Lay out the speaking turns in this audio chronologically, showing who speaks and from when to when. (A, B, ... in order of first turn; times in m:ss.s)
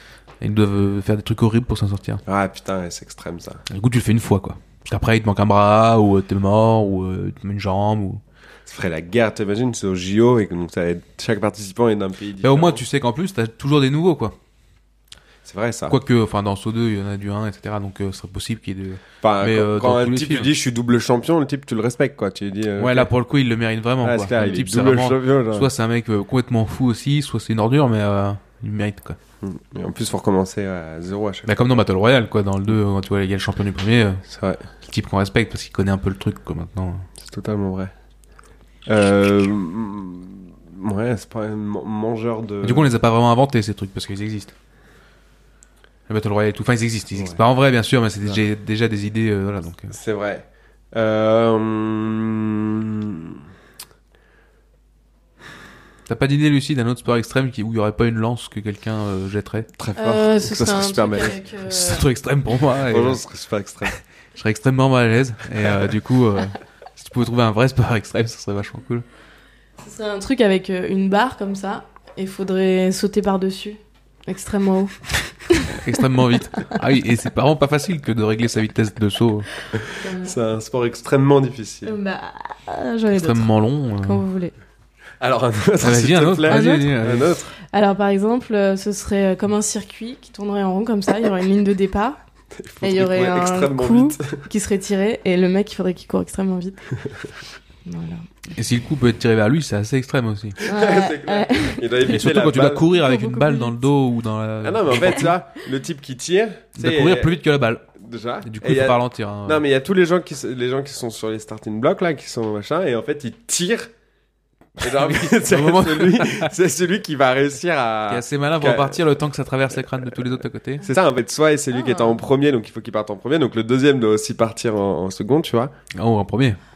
0:00.4-0:02.2 A
0:02.2-0:03.6 B
0:03.7-0:08.2 A
0:08.7-0:12.8 B
0:12.4-0:14.4 A
0:15.4-0:16.0 B
0:15.9-0:20.5 A
0:19.2-0:23.1 B
0:22.8-0:29.2 A
0:24.0-0:25.7 B
0:29.4-0:31.8 B
0:31.4-0:34.2 A
0:34.2-0:34.6 B
0:34.8-0:37.1 A
0:37.2-0:37.9 B
0:38.9-0:42.9 B
0:42.6-0:44.5 A
0:46.1-0:49.9 A
0:49.9-0:53.4 B
0:56.1-0:59.7 A
0:59.8-1:01.4 B
1:00.0-1:02.1 C
1:01.7-1:03.2 A
1:02.9-1:03.9 B
1:03.8-1:09.0 A
1:09.8-1:16.0 C
1:15.8-1:19.5 A
1:19.7-1:22.0 B
1:20.0-1:20.4 C
1:21.8-1:24.5 C
1:23.1-1:24.2 A
1:25.2-1:27.5 B
1:25.8-1:27.3 A
1:26.5-1:27.0 C
1:27.6-1:32.2 C
1:32.6-1:34.4 B
1:32.8-1:36.8 C
1:37.8-1:38.2 C
1:38.5-1:40.6 A
1:40.6-1:42.8 B
1:40.6-1:42.0 C
1:42.1-1:45.3 A
1:42.9-1:43.8 C
1:44.6-1:47.4 B
1:46.8-1:49.6 A
1:48.0-1:53.9 B
1:54.8-1:56.5 A
1:54.8-1:59.0 B
1:58.1-2:00.8 A
2:00.8-2:05.7 B
2:01.7-2:02.2 C
2:06.0-2:06.6 A